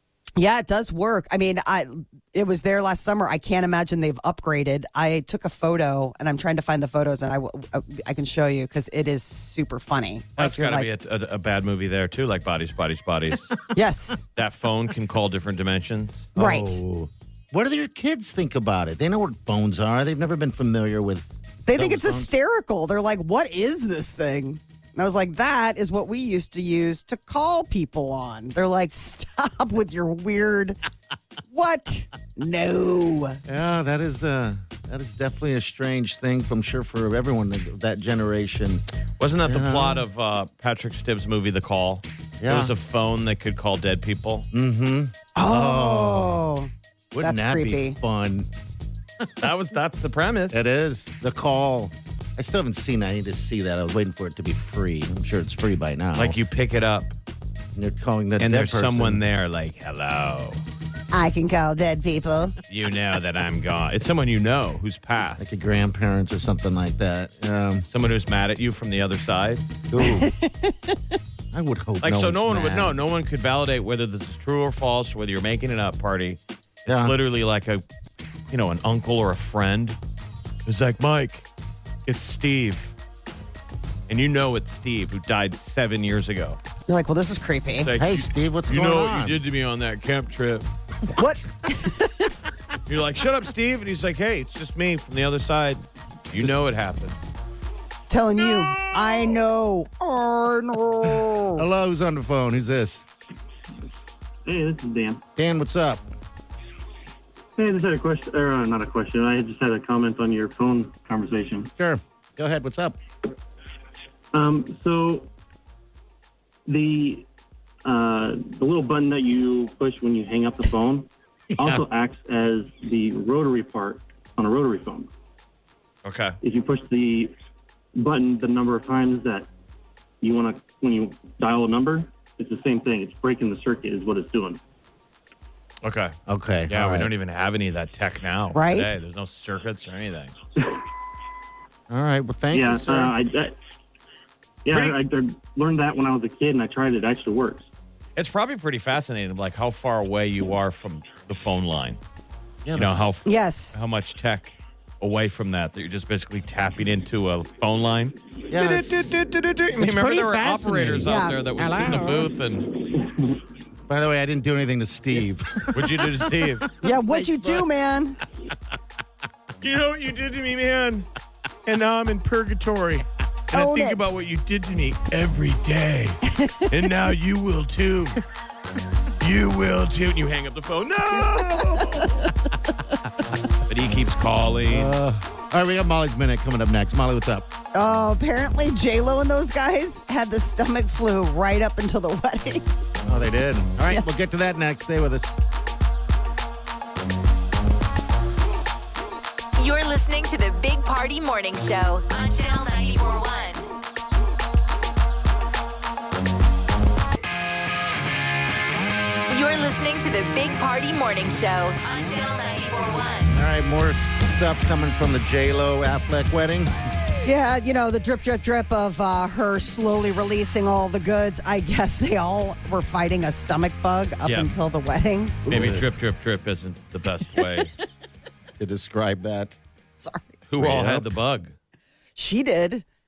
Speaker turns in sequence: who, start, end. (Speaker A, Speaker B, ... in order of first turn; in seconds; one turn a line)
Speaker A: 0.4-10.9
Speaker B: 10.4-13.5
Speaker A: 13.7-14.2
Speaker B: 14.4-16.3
Speaker C: 16.4-22.3
Speaker A: 16.4-16.8
Speaker A: 21.7-30.8
Speaker A: 31.5-33.4
Speaker C: 33.5-38.8
Speaker B: 39.2-44.5
Speaker C: 39.4-40.0
Speaker C: 42.4-42.7
Speaker C: 44.5-46.4
Speaker A: 45.4-46.7
Speaker C: 47.1-48.5
Speaker A: 47.2-48.0
Speaker C: 49.2-49.5
Speaker B: 49.4-50.6
Speaker C: 50.5-56.4
Speaker B: 56.2-57.1
Speaker C: 57.8-59.2
Speaker B: 58.4-60.6
Speaker A: 61.1-62.5
Speaker B: 62.7-65.5
Speaker C: 65.4-67.9
Speaker B: 67.9-69.7
Speaker C: 69.9-70.3
Speaker A: 70.0-71.0
Speaker C: 71.5-73.0
Speaker B: 72.0-77.8
Speaker C: 76.9-77.2
Speaker B: 78.5-80.0
Speaker B: 80.7-81.5
Speaker B: 82.1-82.9
Speaker B: 84.1-86.6
Speaker A: 86.9-87.9
Speaker B: 87.8-90.7
Speaker C: 88.0-89.4
Speaker A: 91.2-92.3
Speaker B: 92.9-97.2
Speaker A: 98.1-101.7
Speaker C: 101.1-103.0
Speaker D: 104.5-105.2
Speaker C: 105.4-106.0
Speaker D: 107.6-111.7
Speaker C: 111.8-113.0
Speaker D: 114.3-115.3
Speaker D: 116.7-117.3
Speaker D: 117.8-125.1
Speaker C: 121.5-121.8
Speaker B: 126.0-126.4
Speaker D: 126.4-127.3
Speaker D: 128.0-129.5
Speaker D: 130.2-134.6
Speaker B: 135.8-136.2
Speaker C: 136.3-137.1
Speaker B: 136.7-140.3
Speaker A: 138.5-138.9
Speaker C: 141.9-143.1
Speaker D: 142.5-143.5
Speaker D: 144.7-147.7
Speaker B: 144.7-145.0
Speaker B: 148.2-152.0
Speaker C: 152.7-153.1
Speaker B: 152.7-162.7
Speaker A: 153.2-153.8
Speaker C: 158.5-159.2
Speaker C: 159.8-162.3
Speaker A: 161.0-161.4
Speaker C: 163.9-167.7
Speaker B: 165.7-166.7
Speaker A: 166.8-168.2
Speaker B: 169.6-171.1
Speaker B: 171.7-178.2
Speaker A: 173.5-174.1
Speaker A: 176.3-176.7
Speaker B: 179.2-182.3
Speaker A: 181.6-182.1
Speaker B: 183.7-184.9
Speaker C: 184.7-187.5
Speaker A: 187.7-192.7
Speaker C: 193.1-195.3
Speaker A: 193.9-194.2
Speaker E: 199.6-203.7
Speaker E: 209.3-213.3
Speaker C: 213.3-216.7
Speaker A: 217.2-225.8
Speaker B: 224.2-224.5
Speaker B: 225.5-227.7
Speaker C: 225.5-225.8
Speaker C: 228.6-229.6
Speaker A: 230.0-230.3
Speaker B: 230.5-231.6
Speaker C: 230.6-231.1
Speaker A: 232.2-232.8